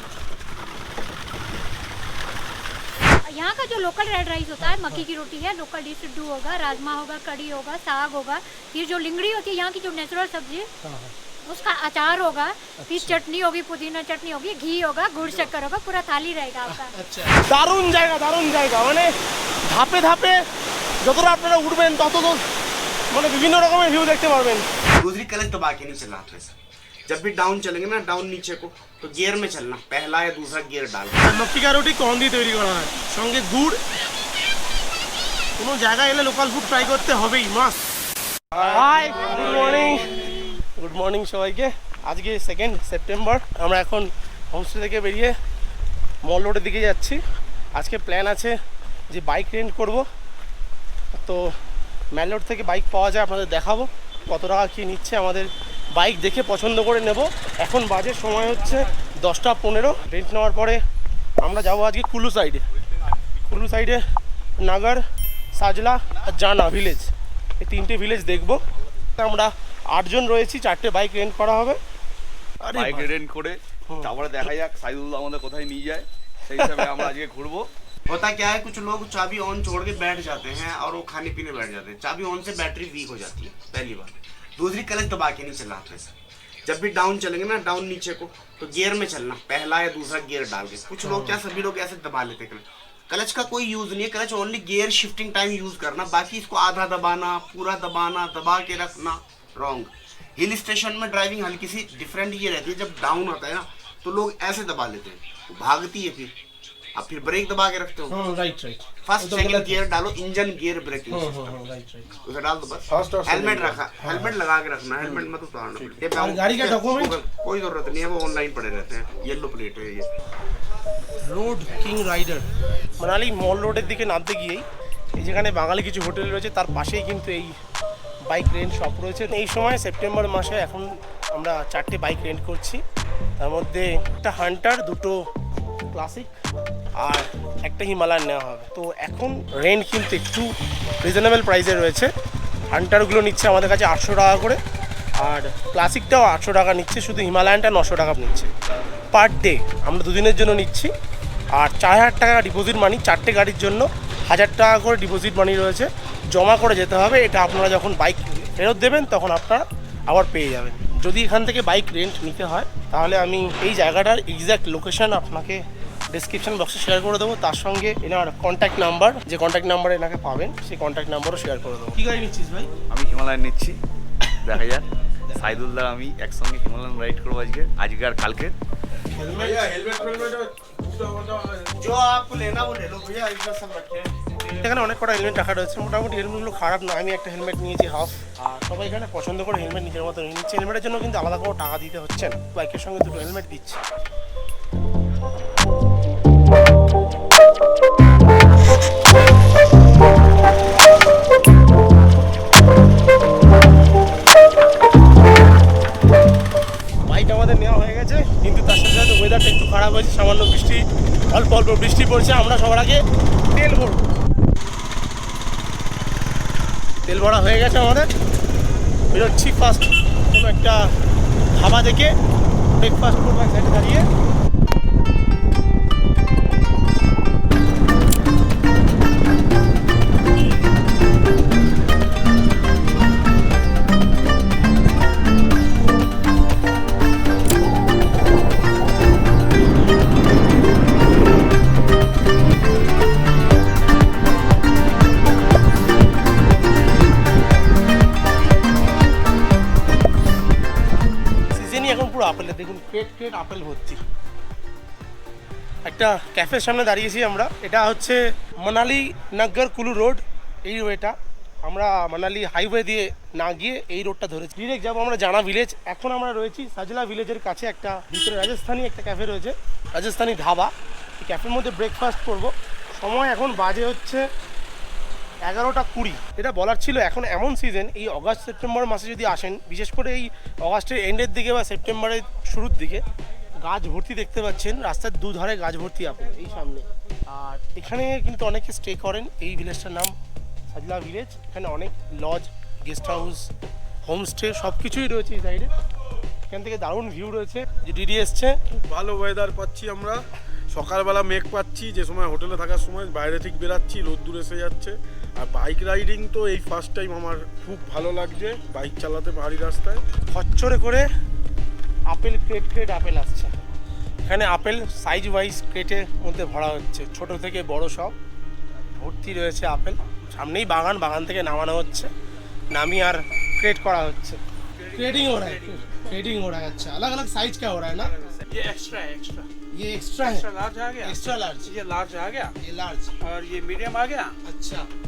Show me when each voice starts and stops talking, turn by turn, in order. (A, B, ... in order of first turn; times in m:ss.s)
0:03.2-0:10.7 A
0:04.6-0:05.0 B
0:10.8-0:11.1 B
0:11.4-0:16.9 A
0:12.8-0:13.2 B
0:16.7-0:19.1 B
0:19.7-0:20.4 B
0:21.0-0:22.4 B
0:23.1-0:24.7 B
0:25.0-0:26.6 C
0:27.1-0:31.4 C
0:31.2-0:33.8 B
0:35.6-0:37.8 B
0:38.6-0:40.1 B
0:40.8-0:45.3 B
0:46.2-0:47.2 B
0:47.8-0:48.6 B
0:49.1-0:50.0 B
0:51.1-0:51.5 B
0:52.1-1:00.8 B
1:01.4-1:02.6 B
1:03.5-1:04.0 B
1:04.6-1:05.0 B
1:05.6-1:08.6 B
1:09.2-1:11.8 B
1:12.6-1:13.1 B
1:12.7-1:17.7 D
1:18.1-1:26.1 C
1:26.7-1:46.3 C
1:31.0-1:31.4 B
1:47.0-1:48.1 C
1:48.1-1:49.8 B
1:49.0-1:51.6 C
1:51.1-1:52.1 B
1:52.2-2:00.1 C
1:52.9-1:53.8 E
1:54.0-1:54.3 B
1:56.2-1:57.2 B
2:01.3-2:02.5 B
2:03.0-2:04.6 B
2:05.2-2:07.6 B
2:08.3-2:12.8 B
2:13.4-2:15.2 B
2:15.9-2:16.3 B
2:17.0-2:22.1 B
2:22.7-2:24.6 B
2:25.2-2:28.5 B
2:29.1-2:30.9 B
2:31.6-2:52.7 B
2:52.9-2:53.8 D
2:54.4-2:54.8 D
2:55.4-2:58.6 D
2:59.2-2:59.7 B
2:59.3-3:01.8 E
3:01.8-3:04.4 C
3:04.6-3:13.8 B
3:27.1-3:34.0 B
3:37.1-3:38.1 B
3:39.1-3:40.9 B
3:41.6-3:42.1 B
3:42.8-3:44.1 B
4:11.6-4:14.0 B
4:15.8-4:34.3 B
4:35.4-4:43.0 B
4:43.6-4:50.2 B
4:50.7-4:53.5 B
4:54.0-4:55.7 B
4:56.5-4:58.6 B
4:58.9-5:00.2 E
5:00.7-5:10.0 E
5:10.3-5:11.1 B
5:12.1-5:13.5 B
5:14.3-5:18.2 B
5:19.0-5:22.1 B
5:22.7-5:24.4 B
5:24.8-5:26.0 F
5:24.9-5:28.1 B
5:28.0-5:29.5 F
5:29.8-5:30.5 B
5:30.2-5:32.5 F
5:31.0-5:31.7 B
5:32.6-5:33.1 B
5:33.2-5:34.4 F
5:34.4-5:34.9 B